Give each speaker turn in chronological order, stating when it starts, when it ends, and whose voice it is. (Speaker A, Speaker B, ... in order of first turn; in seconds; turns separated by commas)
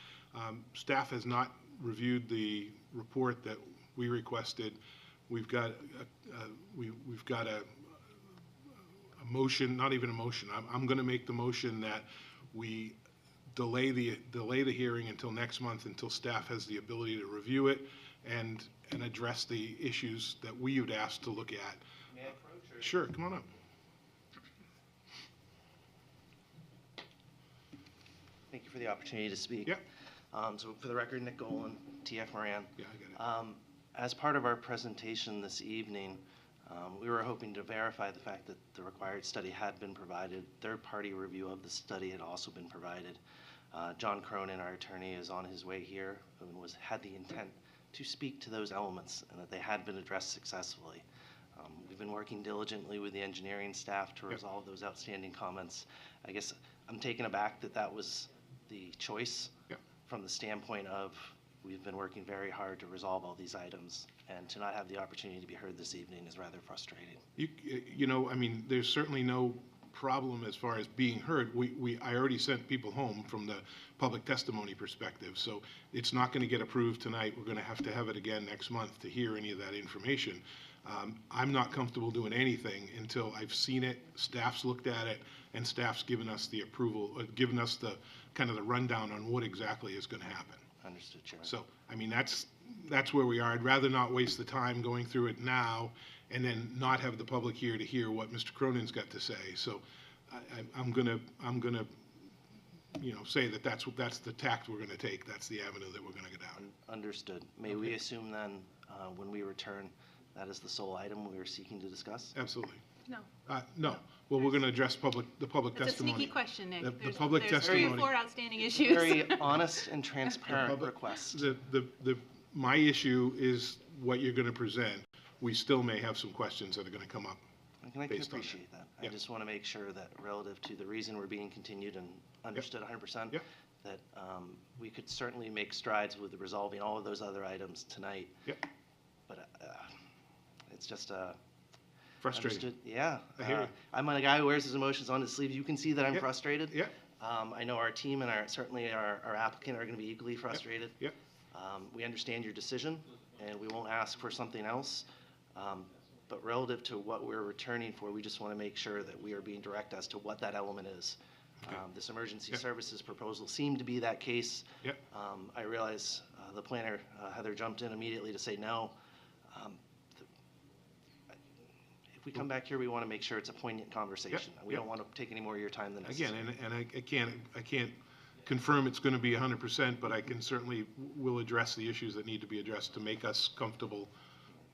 Speaker A: 0.3-8.0, Speaker A: 9.2-13.0, Speaker A: 13.5-21.8, Speaker B: 22.1-23.0, Speaker A: 22.8-23.5, Speaker B: 28.5-29.8, Speaker B: 30.3-43.2, Speaker A: 32.8-33.2, Speaker B: 43.7-51.0, Speaker B: 51.6-67.2, Speaker A: 67.4-90.7, Speaker B: 90.8-91.5, Speaker A: 91.4-102.0, Speaker A: 103.0-106.6, Speaker B: 106.6-112.3, Speaker A: 112.3-112.8, Speaker A: 113.5-118.1, Speaker C: 115.8-119.6, Speaker B: 117.6-118.0, Speaker B: 118.8-121.3, Speaker A: 120.5-127.4, Speaker B: 127.8-138.5, Speaker A: 128.1-129.1, Speaker B: 139.3-140.0, Speaker B: 140.7-141.4, Speaker A: 142.2-142.7, Speaker B: 142.3-151.0, Speaker A: 143.4-143.7, Speaker A: 146.7-146.9, Speaker B: 151.5-169.0, Speaker B: 169.5-170.3, Speaker B: 172.1-176.3, Speaker A: 174.3-174.8, Speaker A: 176.1-184.1